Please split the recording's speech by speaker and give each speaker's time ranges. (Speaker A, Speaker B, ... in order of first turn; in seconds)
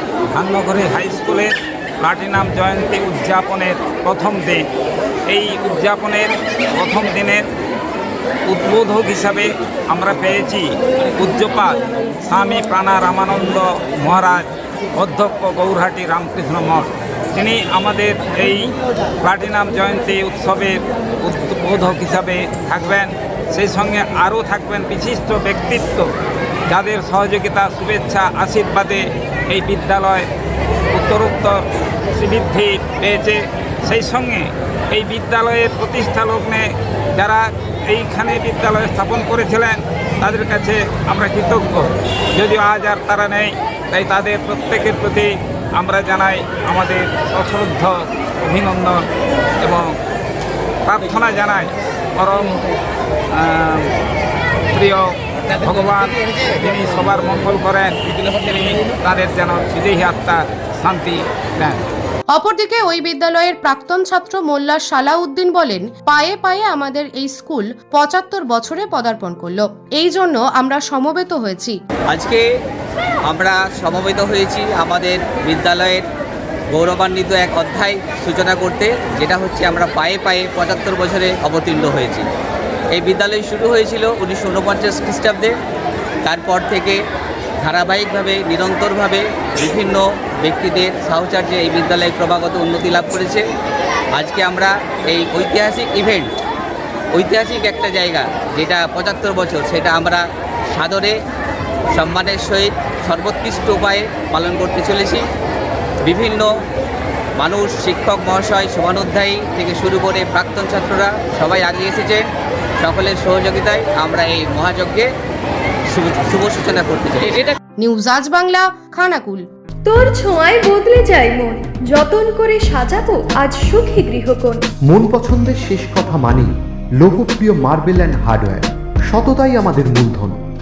Speaker A: 0.3-1.5, 2.0-4.7, 5.3-7.5, 8.5-10.7, 11.2-26.1, 26.7-30.3, 30.9-49.1, 49.6-49.9, 50.9-52.6, 53.3-53.9, 54.7-61.8
Speaker B: 62.3-71.8, 117.8-119.5
Speaker C: 72.1-72.5, 73.3-76.0, 76.7-82.3, 83.0-85.6, 86.2-87.0, 87.6-93.4, 94.2-96.3, 97.1-101.2, 101.9-105.2, 106.1-106.5, 107.4-112.3, 112.8-115.1, 115.9-117.6
Speaker D: 119.9-124.6
Speaker E: 124.9-130.4